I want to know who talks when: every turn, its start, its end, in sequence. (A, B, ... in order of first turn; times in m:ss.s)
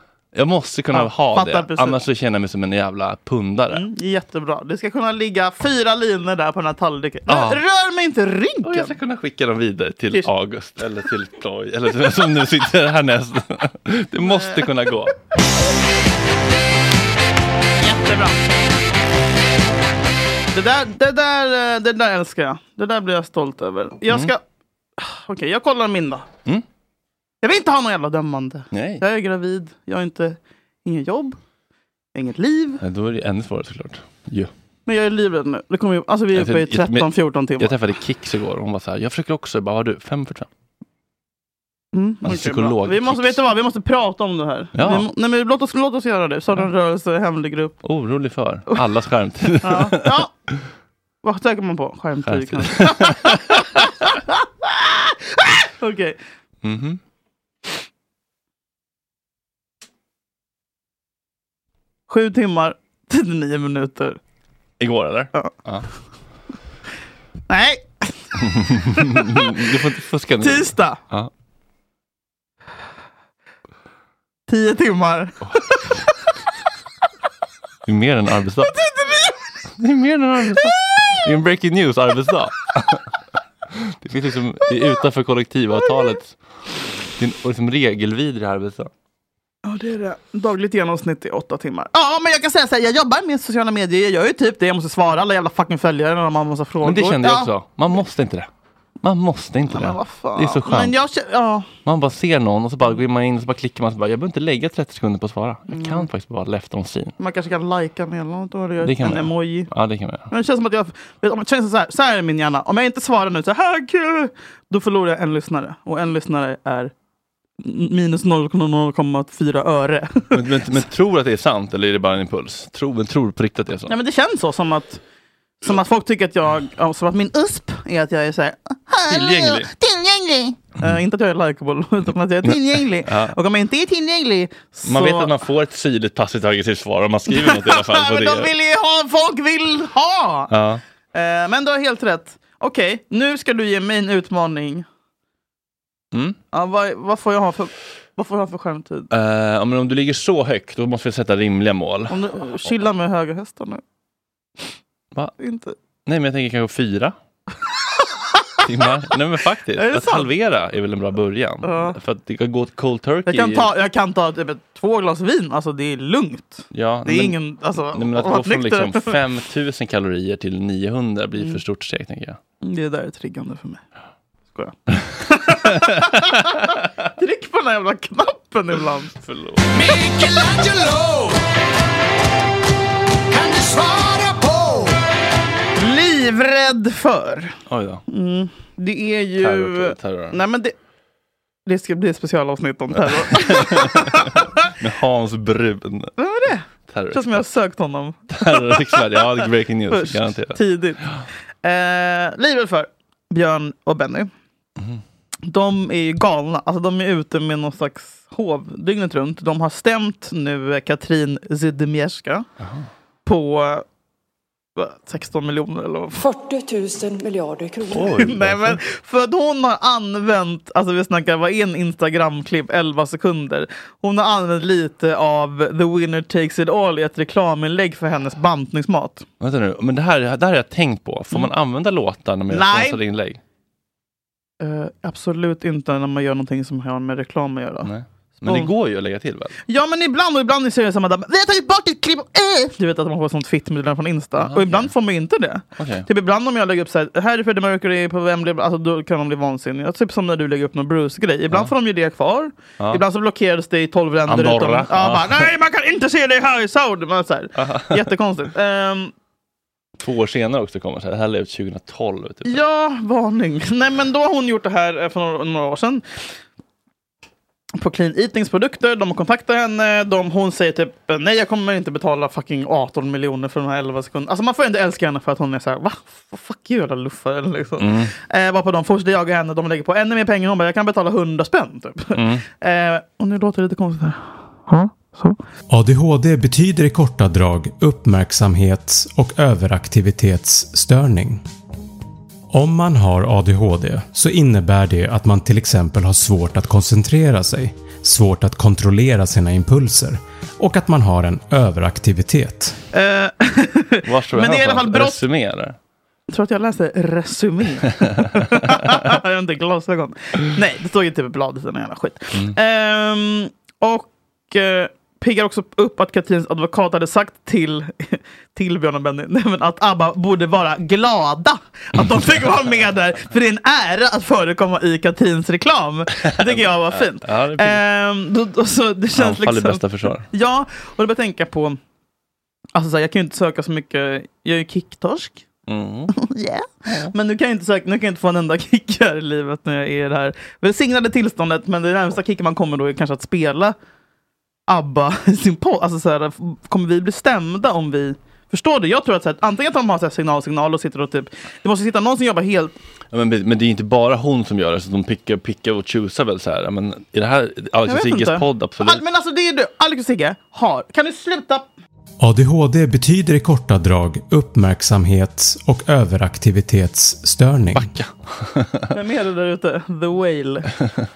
0:00.3-0:03.8 A
0:00.9-0:02.0 B
0:03.7-0:08.9 B
0:07.3-0:07.6 A
0:08.6-0:15.1 A
0:14.2-0:14.7 B
0:17.8-0:18.4 B
0:20.5-0:24.4 B
0:24.1-0:24.3 A
0:25.0-0:26.3 B
0:27.4-0:31.4 B
0:28.7-0:29.0 A
0:32.1-0:32.8 B
0:32.8-0:34.5 A
0:34.9-0:37.8 B
0:36.3-0:40.5 A
0:41.9-0:47.8 B
0:42.2-0:43.4 A
0:44.7-0:45.1 A
0:47.8-0:50.2 A
0:49.6-0:50.3 B
0:51.2-0:56.2 B
0:52.3-0:53.6 A
0:56.6-0:57.0 A
1:02.1-1:04.2 B
1:04.8-1:05.9 A
1:07.5-1:08.1 B
1:08.4-1:11.3 A
1:08.9-1:09.4 B
1:10.4-1:11.0 B
1:14.5-1:15.8 B
1:17.9-1:18.7 A
1:18.7-1:19.4 B
1:19.8-1:23.0 A
1:23.7-1:26.4 A
1:27.2-1:28.9 A
1:29.6-1:37.5 B
1:36.8-1:38.5 A
1:39.0-1:41.0 A
1:39.7-1:41.7 B
1:41.8-1:47.1 A
1:45.7-1:46.1 B
1:47.2-1:49.7 B
1:48.8-1:50.3 A
1:50.3-1:56.9 B
1:57.6-2:00.4 B
2:00.3-2:04.0 A
2:03.9-2:05.0 B
2:05.6-2:15.3 B
2:09.1-2:09.7 A
2:12.4-2:13.4 A
2:14.9-2:18.5 A
2:17.3-2:20.5 B
2:20.5-2:20.8 A
2:21.1-2:24.8 B
2:26.5-2:29.1 B
2:29.1-2:32.2 A
2:32.1-2:33.8 B
2:35.4-2:35.7 B
2:36.1-2:37.1 A
2:38.6-2:43.7 A
2:39.7-2:40.3 B
2:41.6-2:42.0 B
2:43.2-2:49.1 B
2:46.7-2:47.4 A
2:47.9-2:52.4 A
2:52.6-2:53.8 B
2:54.5-2:59.1 B
2:59.2-2:59.7 A
2:59.7-3:01.5 C
3:03.3-3:05.1 C
3:05.8-3:10.7 B
3:07.7-3:08.0 A
3:09.4-3:10.4 A
3:11.6-3:14.7 B
3:13.1-3:16.2 A
3:16.2-3:19.2 B
3:16.9-3:17.4 A
3:18.3-3:21.2 A
3:19.9-3:21.1 B
3:21.6-3:24.3 B
3:25.5-3:32.4 B
3:32.6-3:32.9 A
3:33.2-3:33.8 B
3:34.8-3:36.3 B
3:37.9-3:38.8 A
3:37.9-3:49.2 B
3:49.4-3:53.4 A
3:52.5-3:53.0 B
3:54.6-3:57.9 B
3:57.8-3:59.6 A
3:58.4-3:58.7 B
3:59.7-4:19.1 B
4:04.4-4:04.9 A
4:05.8-4:06.1 A
4:14.3-4:15.5 A
4:17.6-4:18.1 A
4:20.0-4:22.6 A
4:22.4-4:26.0 B
4:27.8-4:45.4 B
4:37.8-4:38.1 A
4:42.1-4:42.4 A
4:45.7-4:51.4 D
4:52.5-5:02.8 D
5:02.9-5:05.2 B
5:04.0-5:05.8 A
5:06.3-5:31.8 B
5:26.2-5:27.8 A
5:29.1-5:30.3 A
5:32.7-5:35.4 B
5:35.7-5:36.1 A
5:36.1-5:43.8 B
5:44.7-5:52.7 B
5:53.1-5:59.0 A
5:57.9-6:01.6 B
6:02.2-6:07.9 D
6:07.7-6:08.9 A
6:08.9-6:10.7 B